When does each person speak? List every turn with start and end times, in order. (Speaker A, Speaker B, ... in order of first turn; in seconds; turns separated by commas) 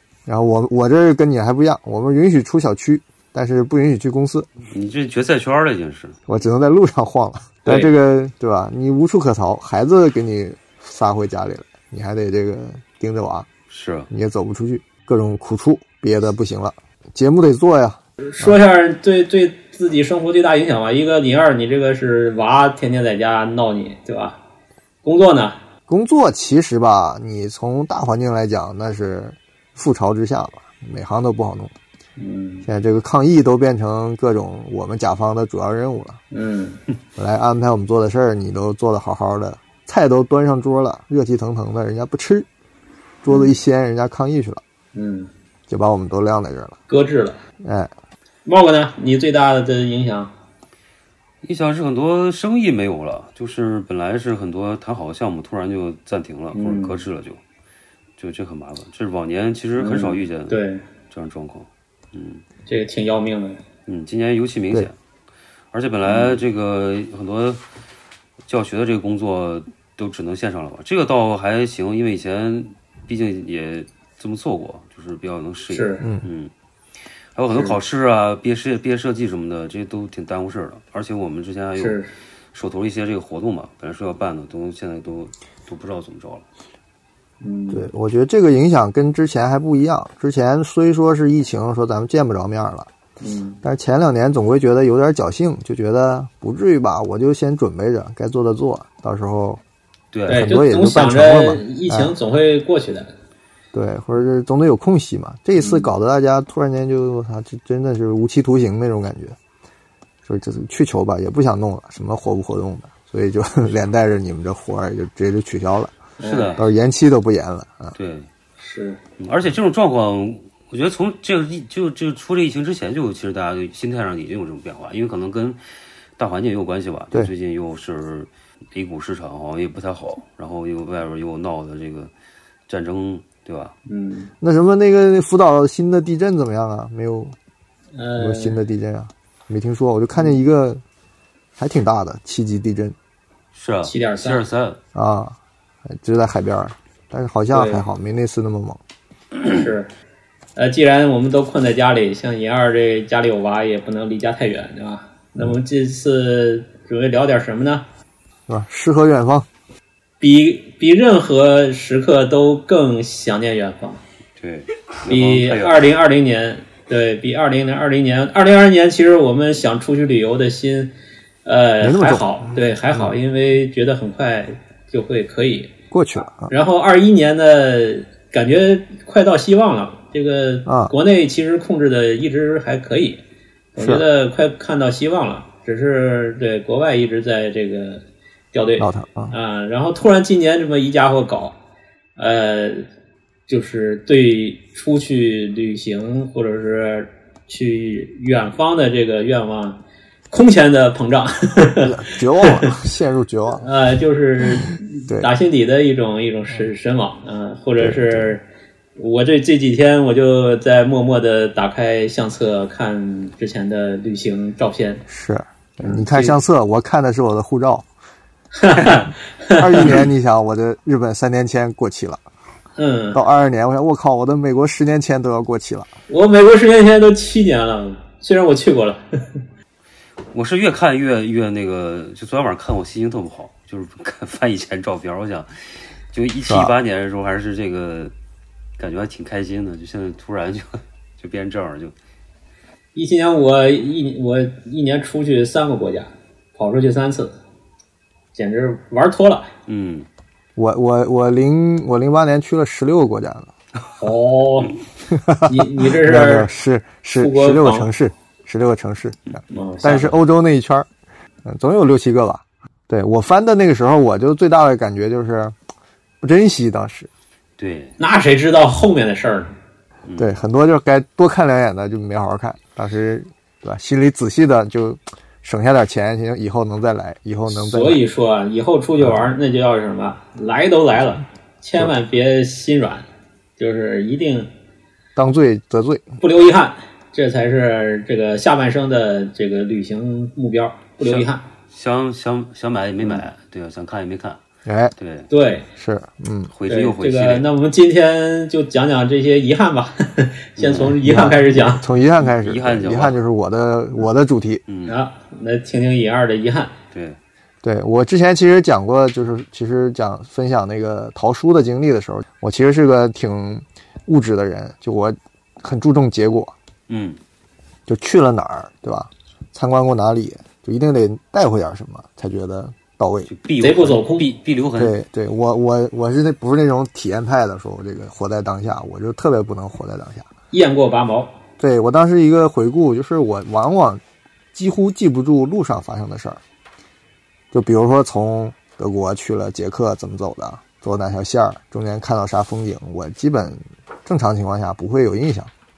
Speaker A: 0.3-4.5, Speaker B: 4.7-6.2, Speaker A: 6.3-13.5, Speaker B: 13.7-14.1, Speaker A: 14.1-18.6, Speaker C: 18.2-24.4, Speaker C: 25.0-25.6, Speaker A: 25.9-31.7, Speaker C: 32.2-32.6, Speaker A: 32.6-36.2, Speaker C: 36.3-36.8, Speaker A: 37.2-42.5, Speaker A: 43.2-44.6, Speaker C: 43.3-43.5, Speaker C: 44.9-45.3, Speaker A: 45.7-46.8, Speaker C: 46.9-47.4, Speaker A: 47.6-47.9, Speaker C: 48.5-50.3, Speaker B: 51.4-57.4, Speaker C: 56.5-57.0, Speaker B: 58.2-60.6, Speaker C: 59.8-60.8, Speaker B: 61.1-62.4, Speaker C: 62.7-63.6, Speaker B: 63.9-65.0, Speaker B: 65.7-67.6, Speaker C: 66.1-66.4, Speaker B: 68.5-76.5, Speaker C: 75.7-76.0, Speaker A: 76.0-76.3, Speaker B: 77.3-82.0, Speaker C: 81.8-82.1, Speaker B: 82.5-86.5, Speaker C: 87.4-87.9, Speaker A: 87.7-92.9, Speaker C: 93.2-93.6, Speaker A: 93.6-99.6, Speaker B: 100.1-100.5, Speaker A: 100.3-102.1, Speaker C: 100.3-103.1, Speaker A: 103.7-109.4, Speaker C: 105.6-105.9, Speaker A: 110.2-116.0, Speaker C: 116.2-116.5, Speaker B: 116.2-116.7, Speaker A: 116.6-118.0, Speaker B: 118.0-118.3, Speaker C: 118.6-119.0, Speaker B: 119.2-125.6, Speaker B: 126.2-132.1, Speaker B: 132.7-133.8, Speaker C: 133.9-134.3, Speaker A: 134.4-137.4, Speaker C: 138.0-138.6, Speaker A: 138.2-140.8, Speaker A: 141.6-143.0, Speaker B: 143.5-144.8, Speaker C: 143.8-144.4, Speaker A: 144.9-145.4, Speaker A: 145.9-148.8, Speaker C: 147.5-147.8, Speaker C: 149.4-149.9, Speaker C: 150.6-157.8, Speaker A: 158.5-159.5, Speaker C: 160.2-164.0, Speaker B: 164.4-165.9, Speaker C: 165.1-170.9, Speaker C: 171.4-175.7, Speaker A: 171.8-173.1, Speaker A: 175.9-176.5, Speaker C: 176.5-183.2, Speaker A: 180.7-180.9, Speaker C: 183.8-191.6, Speaker A: 183.8-184.1, Speaker A: 188.8-189.3, Speaker C: 192.2-192.8, Speaker C: 193.5-199.8, Speaker C: 200.3-202.7, Speaker A: 201.8-203.7, Speaker C: 203.6-208.4, Speaker A: 207.8-208.3, Speaker C: 209.0-215.0, Speaker A: 215.1-217.9, Speaker C: 215.8-216.4, Speaker C: 218.6-220.0, Speaker A: 219.6-222.2, Speaker C: 222.8-223.2, Speaker A: 223.1-225.9, Speaker C: 226.1-229.4, Speaker B: 230.3-235.5, Speaker B: 236.1-238.1, Speaker A: 236.5-236.7, Speaker B: 238.8-241.9, Speaker C: 242.9-247.4, Speaker C: 248.4-249.5, Speaker B: 249.7-250.1, Speaker A: 250.6-253.5, Speaker C: 254.0-254.8, Speaker A: 255.1-260.9, Speaker C: 255.5-256.5, Speaker C: 257.2-257.9, Speaker C: 259.5-260.1, Speaker A: 261.4-265.6, Speaker A: 266.2-267.1, Speaker B: 267.6-268.0, Speaker C: 268.0-269.5, Speaker B: 270.1-270.4, Speaker A: 270.2-278.0, Speaker C: 277.5-283.1, Speaker C: 283.6-284.5, Speaker A: 285.2-286.2, Speaker C: 286.2-291.4, Speaker B: 291.0-294.4, Speaker A: 294.6-294.9, Speaker B: 295.0-295.3, Speaker C: 295.3-295.7, Speaker A: 295.8-296.5, Speaker B: 296.5-297.5, Speaker C: 296.7-301.8, Speaker B: 300.6-300.9, Speaker A: 301.0-304.6, Speaker B: 302.2-303.2, Speaker B: 304.7-305.0, Speaker C: 304.9-306.7, Speaker B: 306.9-307.2, Speaker A: 307.6-316.6, Speaker B: 316.9-317.2, Speaker A: 317.9-323.3, Speaker B: 323.3-325.0, Speaker C: 323.6-324.3, Speaker A: 324.8-330.3, Speaker C: 330.5-331.3, Speaker A: 331.6-334.0, Speaker A: 334.5-336.4, Speaker A: 337.5-345.5